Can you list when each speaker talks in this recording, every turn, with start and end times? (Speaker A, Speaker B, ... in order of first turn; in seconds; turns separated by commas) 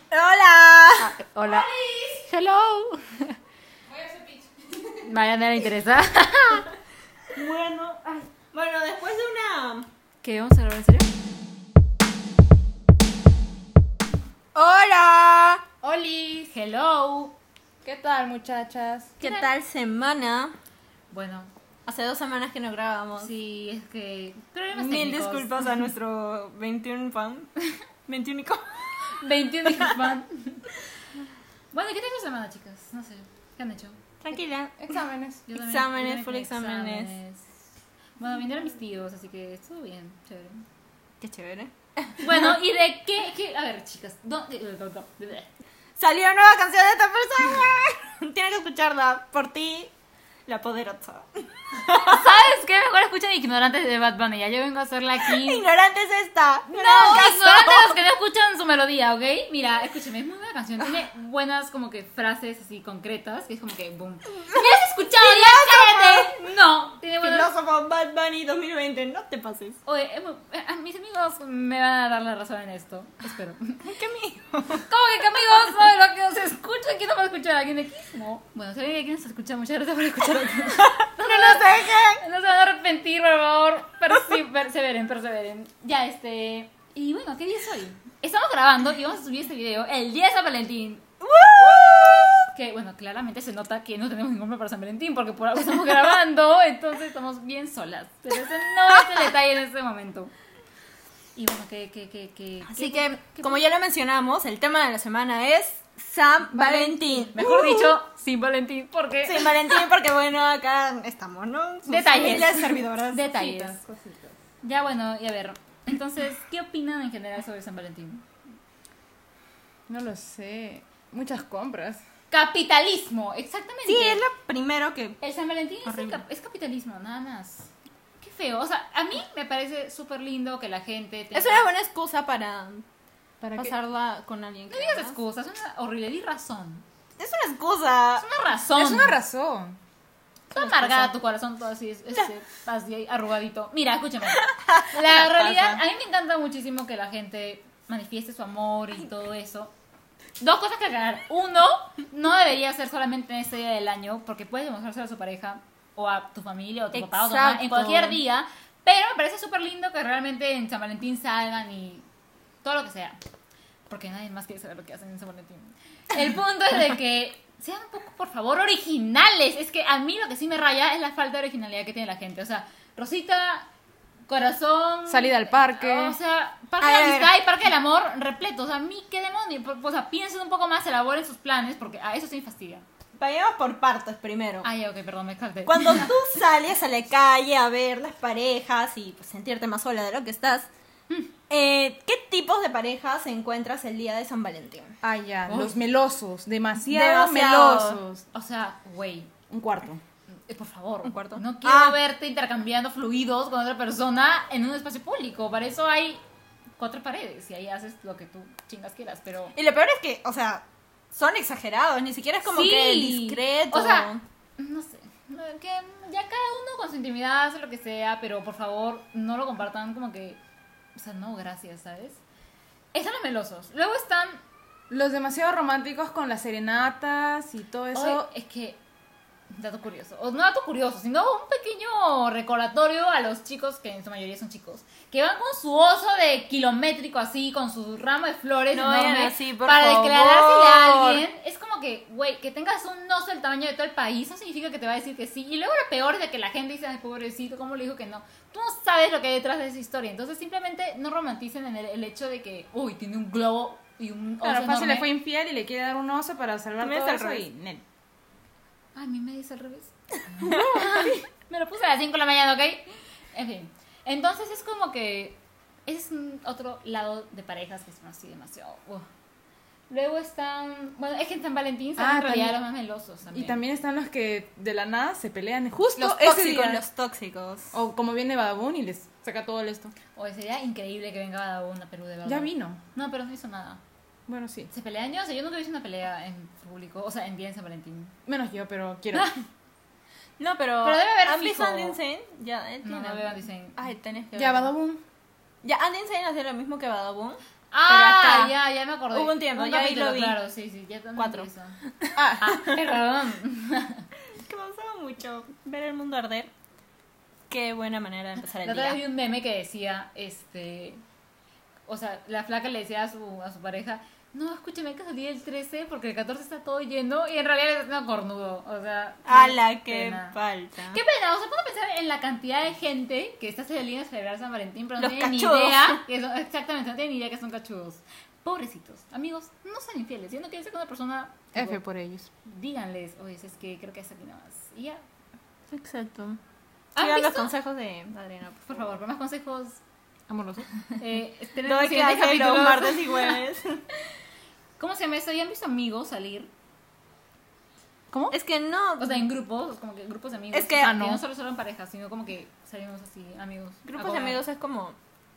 Speaker A: 0.1-1.1, Speaker B: 1.0-3.4, Speaker C: 3.9-4.5, Speaker B: 5.0-6.7, Speaker B: 7.5-8.2, Speaker A: 8.5-9.9, Speaker B: 10.2-11.1, Speaker A: 14.6-15.7, Speaker C: 15.9-16.3, Speaker B: 16.4-17.4, Speaker C: 17.8-19.2, Speaker A: 19.2-20.5, Speaker B: 19.2-19.5, Speaker B: 21.1-21.5, Speaker A: 21.9-23.3, Speaker B: 23.2-25.6, Speaker A: 24.7-27.6, Speaker A: 28.1-28.6, Speaker B: 29.1-30.7, Speaker B: 31.7-34.4, Speaker A: 34.2-34.8, Speaker C: 34.8-35.4, Speaker B: 35.5-37.6, Speaker A: 35.5-37.1, Speaker B: 38.2-40.6, Speaker A: 41.2-42.5, Speaker B: 42.2-45.5, Speaker A: 46.0-49.9, Speaker A: 50.5-52.4, Speaker B: 52.0-55.6, Speaker A: 55.2-58.0, Speaker B: 56.7-67.5, Speaker A: 64.5-66.5, Speaker A: 67.2-69.8, Speaker B: 69.9-73.8, Speaker A: 73.8-74.8, Speaker B: 74.9-91.0, Speaker A: 80.8-82.2, Speaker A: 91.2-92.5, Speaker B: 91.6-100.3, Speaker B: 101.4-103.6, Speaker A: 102.7-108.0, Speaker B: 106.5-109.8, Speaker A: 109.2-113.7, Speaker B: 111.9-113.8, Speaker C: 113.5-114.4, Speaker B: 114.6-118.2, Speaker C: 119.9-122.0, Speaker B: 122.3-124.2, Speaker A: 123.9-125.2, Speaker B: 125.2-131.7, Speaker A: 125.8-126.2, Speaker A: 131.3-132.9, Speaker C: 133.4-133.7, Speaker A: 133.6-135.2, Speaker B: 134.7-136.8, Speaker A: 137.2-138.3, Speaker B: 138.2-139.2, Speaker C: 138.8-139.8, Speaker B: 140.5-149.7, Speaker C: 140.6-141.0, Speaker A: 144.3-144.9, Speaker C: 145.2-145.8, Speaker B: 150.4-162.1, Speaker A: 156.9-158.2, Speaker B: 162.6-163.2, Speaker B: 163.9-173.7, Speaker B: 174.3-182.8, Speaker C: 175.1-176.2, Speaker A: 176.8-177.3, Speaker A: 183.2-184.7, Speaker B: 184.6-186.2, Speaker A: 185.7-190.7, Speaker A: 191.5-195.7, Speaker C: 195.0-198.2, Speaker A: 196.8-198.0, Speaker B: 198.3-199.3, Speaker C: 199.5-200.0, Speaker B: 200.5-206.2, Speaker A: 201.0-202.0, Speaker B: 206.8-209.6, Speaker A: 209.6-214.2, Speaker B: 212.4-220.4, Speaker B: 221.0-222.2, Speaker B: 222.9-224.4, Speaker C: 224.9-228.3, Speaker B: 227.9-228.8, Speaker B: 229.5-255.1, Speaker A: 238.7-241.2, Speaker C: 254.4-257.8, Speaker A: 256.8-257.5, Speaker B: 258.9-269.1, Speaker C: 260.4-261.2, Speaker B: 269.9-273.6, Speaker C: 272.0-272.6, Speaker C: 273.3-276.8, Speaker A: 276.0-277.7, Speaker C: 277.7-279.9, Speaker B: 280.1-283.8, Speaker C: 282.2-282.8, Speaker C: 284.3-284.7, Speaker B: 284.7-288.1, Speaker C: 288.3-289.3, Speaker B: 289.1-289.4, Speaker A: 290.4-294.7, Speaker B: 290.8-292.0, Speaker B: 292.8-293.8, Speaker C: 294.4-295.0, Speaker A: 295.6-298.6, Speaker B: 297.7-301.8, Speaker A: 299.1-300.4, Speaker A: 301.2-301.5, Speaker A: 302.0-302.8, Speaker C: 302.2-302.7, Speaker B: 302.4-304.1, Speaker A: 304.3-306.5, Speaker A: 307.5-309.0, Speaker B: 308.6-311.0, Speaker B: 311.9-320.4, Speaker A: 319.3-321.0, Speaker B: 320.9-331.8, Speaker A: 325.0-326.0, Speaker C: 331.5-332.3, Speaker B: 332.4-335.0, Speaker A: 335.7-336.4, Speaker B: 336.9-337.5, Speaker A: 337.0-338.7, Speaker B: 338.6-339.8, Speaker C: 340.3-340.7, Speaker B: 341.0-343.4, Speaker A: 341.6-343.8, Speaker B: 344.8-346.5, Speaker A: 348.3-349.3, Speaker B: 349.0-354.4, Speaker A: 350.5-351.0, Speaker C: 350.8-351.2, Speaker A: 353.9-355.0